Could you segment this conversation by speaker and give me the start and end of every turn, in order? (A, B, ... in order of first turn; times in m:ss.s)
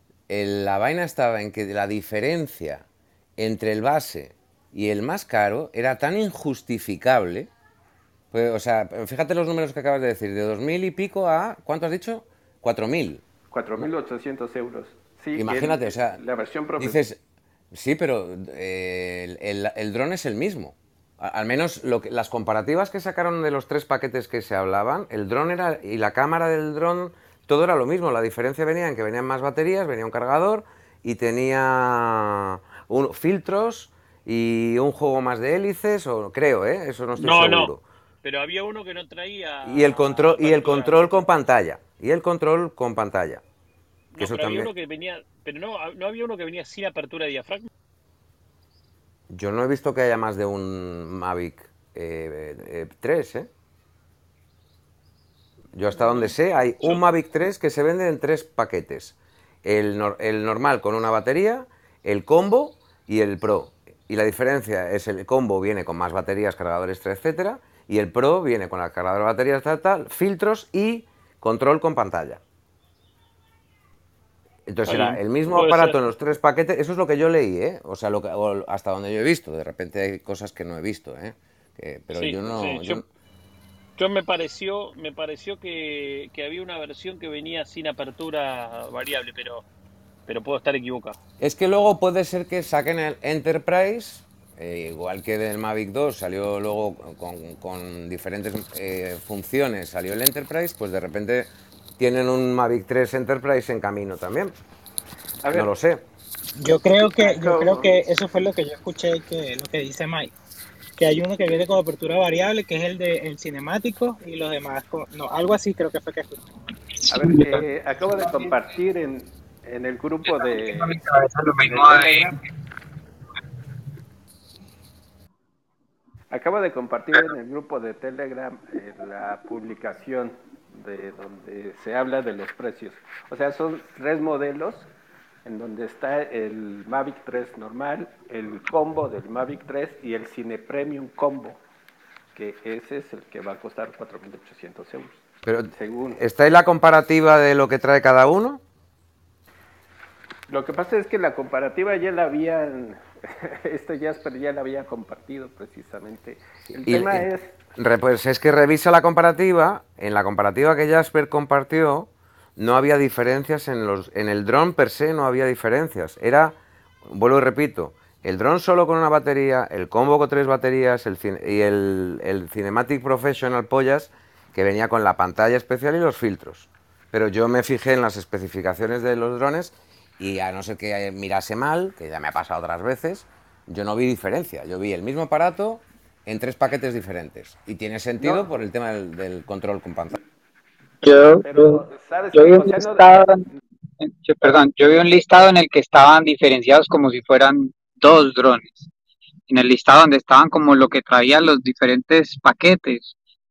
0:00.3-0:02.8 A
0:03.4-0:07.5 A
0:08.3-0:13.2 A
0:13.5-0:17.0 B
0:15.3-0:16.2 A
0:16.8-0:17.2 A
0:17.7-0:37.8 A
0:37.2-0:41.2 C
0:39.6-0:43.4 A
0:44.1-0:47.7 C
0:44.2-0:44.7 A
0:49.3-0:53.5 A
0:55.7-1:12.4 A
0:55.9-0:57.0 C
1:14.7-1:23.0 A
1:14.8-1:16.0 C
1:22.1-1:23.0 C
1:24.0-1:29.6 C
1:30.3-1:31.2 C
1:31.4-1:44.5 A
1:45.4-1:45.7 B
1:45.5-1:46.0 A
1:46.6-1:50.3 D
1:47.2-1:48.0 B
1:51.0-1:56.4 D
1:57.1-2:01.0 B
1:57.2-1:57.6 E
1:58.2-1:58.5 E
2:00.2-2:02.4 E
2:01.6-2:02.4 B
2:06.3-2:14.9 B
2:15.4-2:21.6 B
2:22.3-2:25.2 B
2:25.4-2:28.6 A
2:25.7-2:26.2 B
2:30.5-2:37.6 B
2:36.8-3:10.1 A
3:08.2-3:08.5 B
3:11.0-3:11.8 E
3:11.4-3:13.3 B
3:12.3-3:13.5 E
3:14.0-3:18.9 E
3:19.5-3:23.1 E